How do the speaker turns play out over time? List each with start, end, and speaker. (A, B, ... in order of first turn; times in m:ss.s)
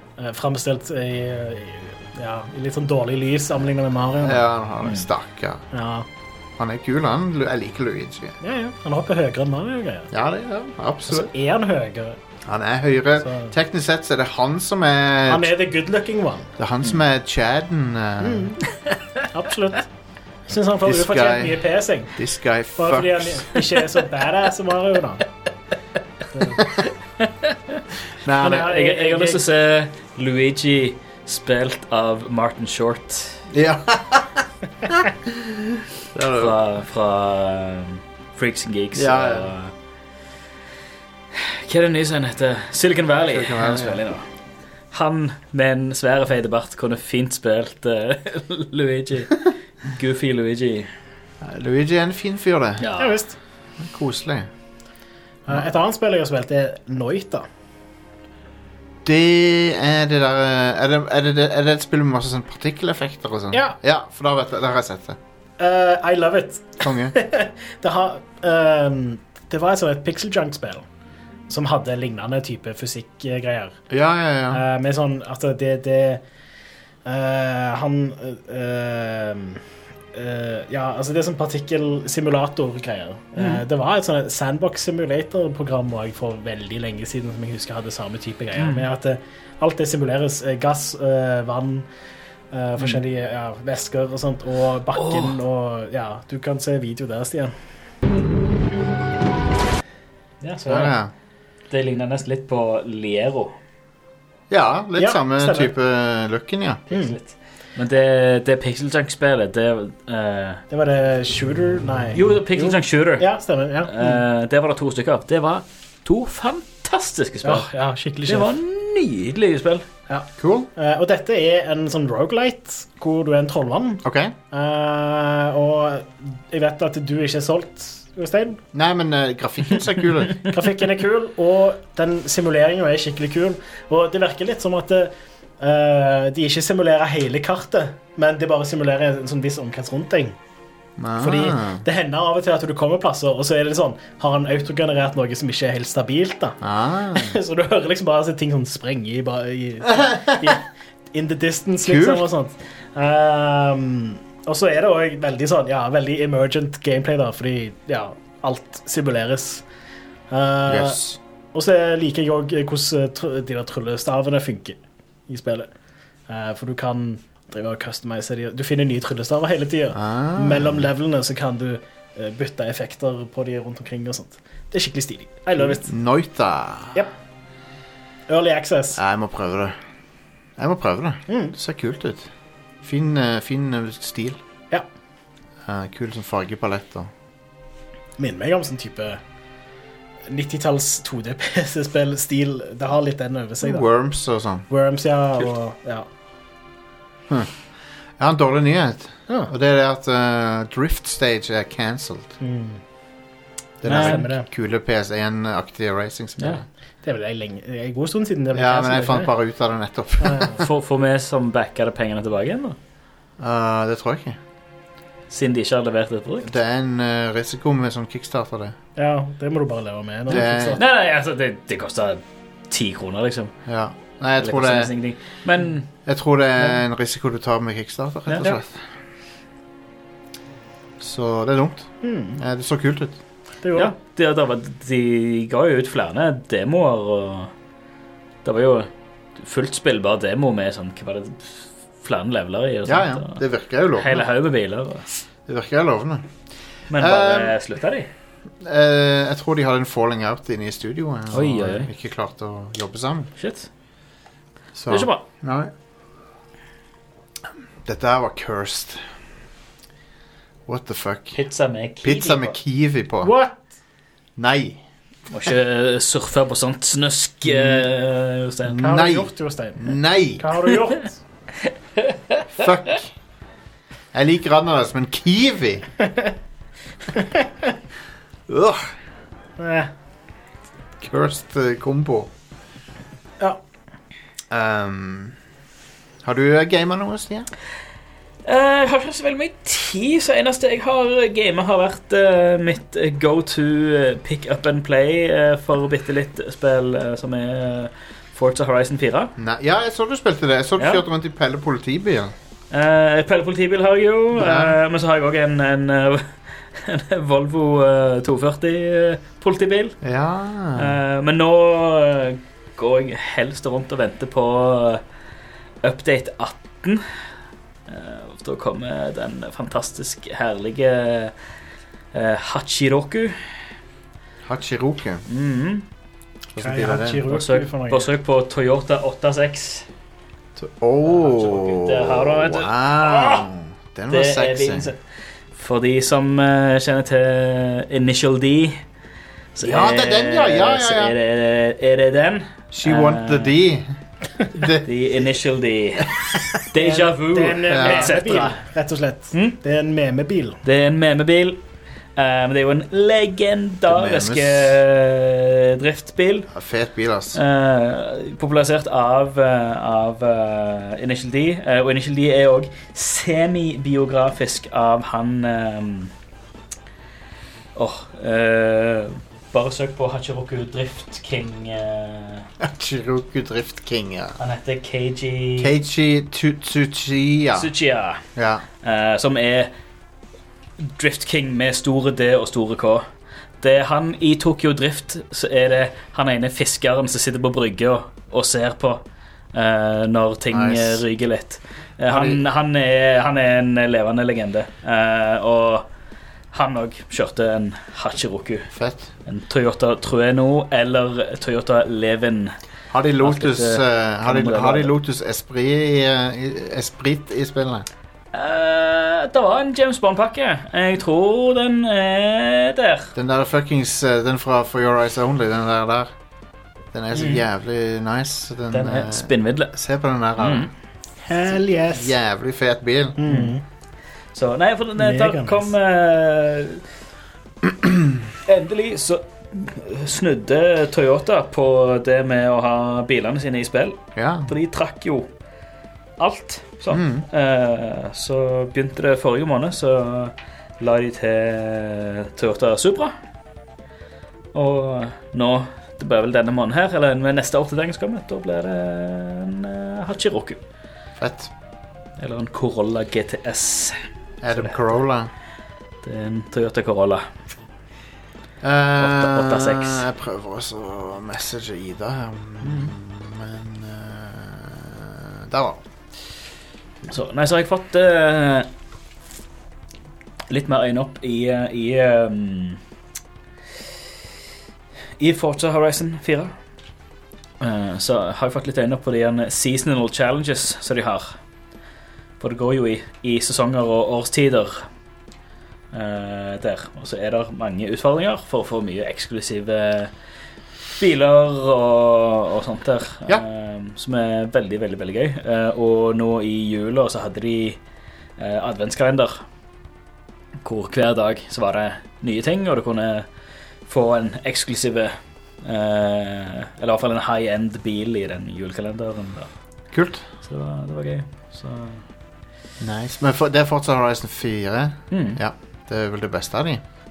0:00.2-0:04.4 A
0:04.2-0:05.6 B
0:05.7-0:06.0 A
0:06.6-0:08.4 B
0:08.4-0:10.1 A
0:10.1-0:11.3 B
0:11.1-0:12.2 A
0:12.4-0:15.5 B
0:13.2-0:13.5 A
0:15.3-0:16.5 A
0:16.6-0:18.5 B
0:18.2-0:18.6 A
0:19.3-0:19.8 A
0:20.5-0:22.1 A
0:20.8-0:23.6 B
0:22.8-0:25.2 A
0:26.3-0:26.6 A
0:26.6-0:26.8 B
0:28.2-0:28.8 B
0:28.4-0:29.4 A
0:28.6-0:33.4 C
0:33.5-0:36.6 B
0:36.3-0:39.7 C
0:38.9-0:39.5 B
0:41.3-0:44.2 C
0:43.3-0:44.0 B
0:44.9-0:50.9 C
0:51.4-0:52.8 B
0:52.8-0:53.2 C
0:53.0-0:53.3 A
0:53.8-0:54.5 B
0:55.5-0:57.4 A
0:59.0-1:05.2 B
1:05.6-1:10.8 A
1:06.8-1:07.1 B
1:11.5-1:13.8 A
1:13.9-1:14.6 B
1:14.5-1:16.2 A
1:17.0-1:19.6 A
1:20.1-1:31.9 A
1:23.4-1:23.6 C
1:28.6-1:28.8 C
1:32.5-1:37.5 A
1:34.9-1:35.4 C
1:40.4-1:40.9 A
1:40.7-1:41.1 B
1:41.7-1:43.5 C
1:44.5-1:46.8 B
1:45.0-1:45.7 A
1:46.9-1:50.6 C
1:50.7-1:54.2 A
1:52.1-1:53.3 C
1:53.8-1:57.7 C
1:57.4-1:58.5 A
1:58.2-1:59.8 C
2:00.1-2:08.6 A
2:00.4-2:00.7 B
2:04.0-2:04.3 B
2:08.7-2:10.4 B
2:10.5-2:20.4 A
2:21.0-2:21.8 B
2:21.2-2:26.6 A
2:26.6-2:27.4 B
2:27.1-2:39.6 A
2:29.8-2:30.6 B
2:31.8-2:32.2 B
2:40.3-2:41.0 A
2:40.6-2:41.2 B
2:41.5-2:45.7 A
2:46.3-2:55.9 A
2:49.9-2:50.8 B
2:55.6-2:57.1 B
2:58.3-2:59.0 A
2:59.0-2:59.8 B
3:00.6-3:02.3 B
3:01.3-3:01.5 A
3:02.8-3:04.4 B
3:05.6-3:07.1 B
3:08.2-3:09.2 A
3:10.3-3:13.8 A
3:13.6-3:14.6 B
3:14.7-3:16.1 A
3:17.3-3:17.5 B
3:18.2-3:22.3 B
3:22.4-3:22.8 A
3:23.8-3:26.6 B
3:23.8-3:24.4 A
3:27.0-3:29.3 A
3:28.5-3:30.6 B
3:30.2-3:30.6 A
3:30.6-3:32.8 C
3:33.4-3:34.4 B
3:35.3-3:36.5 C
3:36.4-3:38.8 B
3:39.0-3:40.8 A
3:40.3-3:40.8 B
3:40.3-3:43.5 C
3:43.7-3:44.9 B
3:44.4-3:45.9 C
3:46.0-3:48.8 B
3:48.3-3:48.6 A
3:51.0-3:53.2 B
3:52.0-3:52.4 A
3:53.6-3:53.9 A
3:53.7-3:57.5 C
3:58.4-4:03.4 C
4:02.8-4:04.2 B
4:04.0-4:05.0 C
4:05.5-4:06.3 B
4:06.9-4:08.1 C
4:06.9-4:07.5 B
4:08.6-4:13.3 B
4:11.3-4:11.9 C
4:13.4-4:13.7 C
4:14.7-4:15.7 B
4:14.9-4:15.2 C
4:17.8-4:19.0 B
4:20.7-4:21.4 B
4:21.4-4:22.6 C
4:22.0-4:23.3 B
4:23.2-4:23.6 A
4:24.4-4:24.8 B
4:25.3-4:28.8 C
4:27.5-4:27.8 B
4:28.6-4:30.4 B
4:28.8-4:31.2 A
4:32.1-4:32.4 C
4:32.5-4:33.1 B
4:34.1-4:35.9 B
4:37.1-4:37.6 A
4:38.5-4:38.9 B
4:39.6-4:39.9 A
4:41.0-4:42.3 B
4:44.5-4:45.4 B
4:46.2-4:47.5 B
4:48.4-4:59.3 C
4:59.4-5:02.3 B
5:00.8-5:01.0 C
5:02.7-5:10.0 C
5:04.3-5:04.8 B
5:10.0-5:11.0 B
5:10.8-5:15.0 C
5:15.8-5:17.0 C
5:17.9-5:21.3 C
5:22.1-5:23.4 C
5:24.4-5:25.2 B
5:25.3-5:25.8 C
5:26.5-5:27.2 B
5:26.6-5:28.1 A
5:27.3-5:29.8 C
5:30.6-5:34.9 B
5:31.1-5:33.4 C
5:34.1-5:35.0 C
5:35.5-5:38.8 C
5:39.5-5:43.6 C
5:39.6-5:41.1 B
5:42.7-5:43.9 B
5:44.5-5:44.9 B
5:44.8-5:48.5 C
5:46.8-5:50.6 A
5:47.7-5:48.5 B
5:49.3-5:49.6 C
5:50.6-5:51.6 C
5:52.2-5:56.5 C
5:53.8-5:54.7 B
5:56.5-5:57.4 B
5:57.3-6:06.1 C
6:07.7-6:12.5 C
6:12.6-6:14.4 B
6:14.4-6:15.7 C
6:15.6-6:17.7 B
6:17.5-6:18.2 C
6:18.4-6:18.6 B
6:18.8-6:19.7 C
6:20.8-6:23.0 C
6:23.6-6:29.0 C
6:29.5-6:35.9 C
6:30.5-6:31.0 B
6:32.1-6:32.4 B
6:36.5-6:38.7 C
6:38.7-6:39.1 B
6:39.2-6:42.5 C
6:42.9-6:47.9 B
6:43.2-6:44.9 C
6:48.3-6:53.1 C
6:53.1-6:56.1 B
6:56.9-7:00.7 B
6:58.7-6:59.7 C
7:00.4-7:00.7 C
7:01.2-7:02.1 A
7:01.9-7:03.2 B
7:03.2-7:03.6 A
7:04.3-7:06.8 C
7:05.0-7:05.7 A
7:08.4-7:15.3 C
7:14.2-7:14.5 B
7:16.2-7:23.1 C
7:16.9-7:17.2 B
7:24.5-7:30.6 C
7:31.2-7:31.5 B
7:32.2-7:34.0 C
7:34.4-7:35.3 B
7:34.5-7:35.0 C
7:36.0-7:37.2 C
7:38.6-7:45.8 B
7:39.0-7:40.0 C
7:42.6-7:42.9 C
7:47.1-7:48.7 C
7:50.5-7:52.8 C
7:55.2-7:56.5 C
7:57.6-8:01.4 C
8:02.4-8:04.8 C
8:05.9-8:10.1 C
8:11.0-8:17.8 C
8:18.4-8:19.4 C
8:20.6-8:23.2 C
8:23.9-8:29.5 C
8:29.9-8:30.3 B
8:30.4-8:32.0 C
8:32.8-8:36.8 B
8:35.1-8:35.4 C